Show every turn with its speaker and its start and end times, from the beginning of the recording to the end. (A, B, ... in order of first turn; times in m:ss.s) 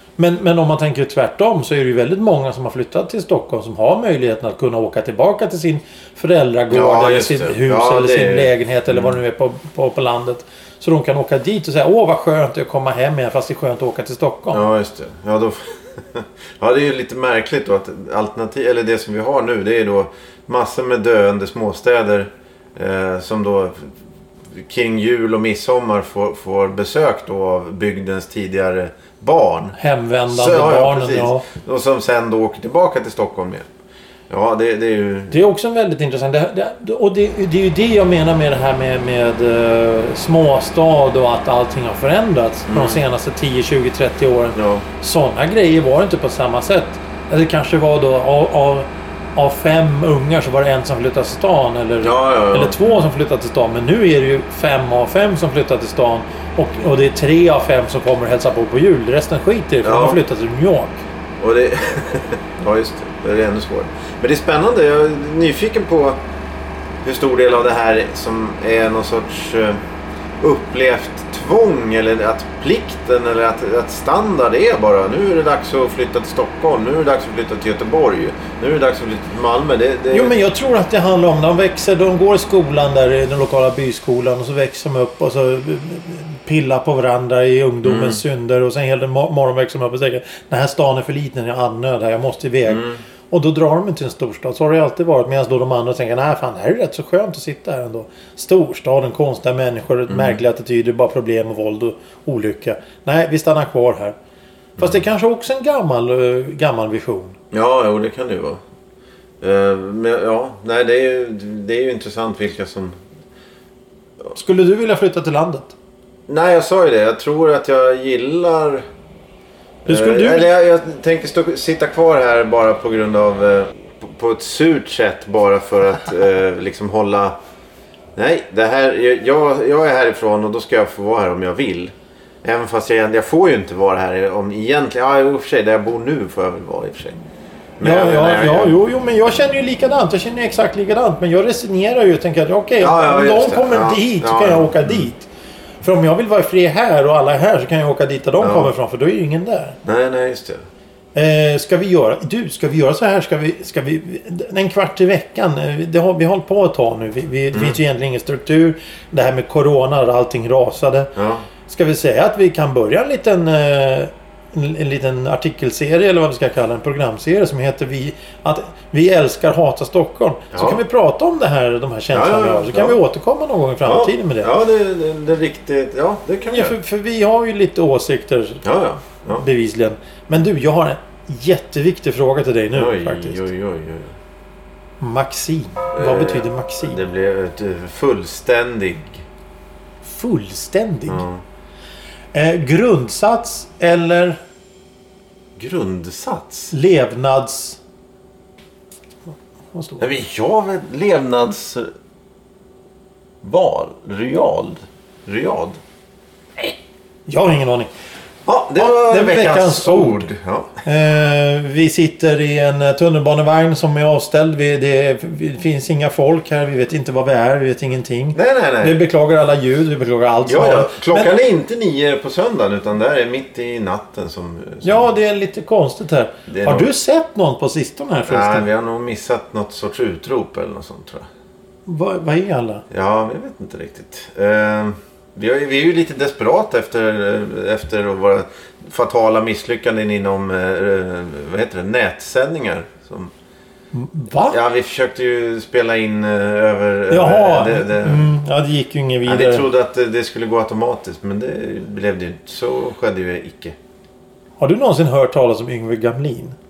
0:00.2-0:14.6 A
0:06.7-0:09.2 B
0:14.5-0:23.9 B
0:24.5-0:29.8 B
0:29.8-0:31.5 A
0:30.3-0:33.7 B
0:34.3-0:35.4 B
0:35.3-1:01.0 A
0:42.7-0:43.0 B
0:44.6-0:44.9 B
0:52.0-0:53.0 B
0:59.8-1:00.2 B
1:01.4-1:06.2 B
1:07.0-1:09.8 B
1:10.4-1:20.3 B
1:20.1-1:44.2 A
1:27.8-1:28.2 B
1:32.7-1:33.0 B
1:40.1-1:40.4 B
1:44.8-1:47.4 A
1:47.5-1:48.6 B
1:49.4-1:53.0 B
1:54.3-1:55.8 A
1:56.3-1:58.8 B
1:59.8-2:00.5 A
1:59.9-2:07.4 B
2:08.2-2:17.2 B
2:17.8-2:18.8 B
2:17.8-2:25.3 A
2:22.8-2:25.1 B
2:25.8-2:29.8 A
2:28.4-2:28.7 B
2:29.8-2:30.6 B
2:31.2-2:41.1 A
2:37.5-2:37.8 B
2:41.2-2:41.4 B
2:41.7-2:54.5 A
2:50.5-2:50.8 B
2:52.1-2:53.0 B
2:53.8-2:56.8 B
2:56.5-2:58.6 A
2:58.6-2:59.5 B
2:59.2-3:03.5 A
3:02.7-3:04.2 B
3:05.0-3:07.0 A
3:05.9-3:09.2 B
3:10.0-3:11.2 A
3:11.1-3:11.4 B
3:12.3-3:14.4 A
3:15.6-3:16.7 B
3:16.7-3:17.8 A
3:19.7-3:20.1 A
3:20.0-3:21.9 B
3:23.4-3:25.8 B
3:27.3-3:27.9 A
3:28.5-3:30.7 B
3:28.8-3:30.3 A
3:30.8-3:41.3 A
3:38.3-3:39.0 B
3:40.5-3:45.1 B
3:44.8-3:48.7 A
3:46.5-3:46.9 B
3:48.3-3:51.3 B
3:51.9-3:52.8 A
3:52.9-4:03.3 B
4:03.9-4:04.6 A
4:04.5-4:08.3 B
4:07.1-4:09.7 A
4:09.3-4:13.8 B
4:14.6-4:16.6 A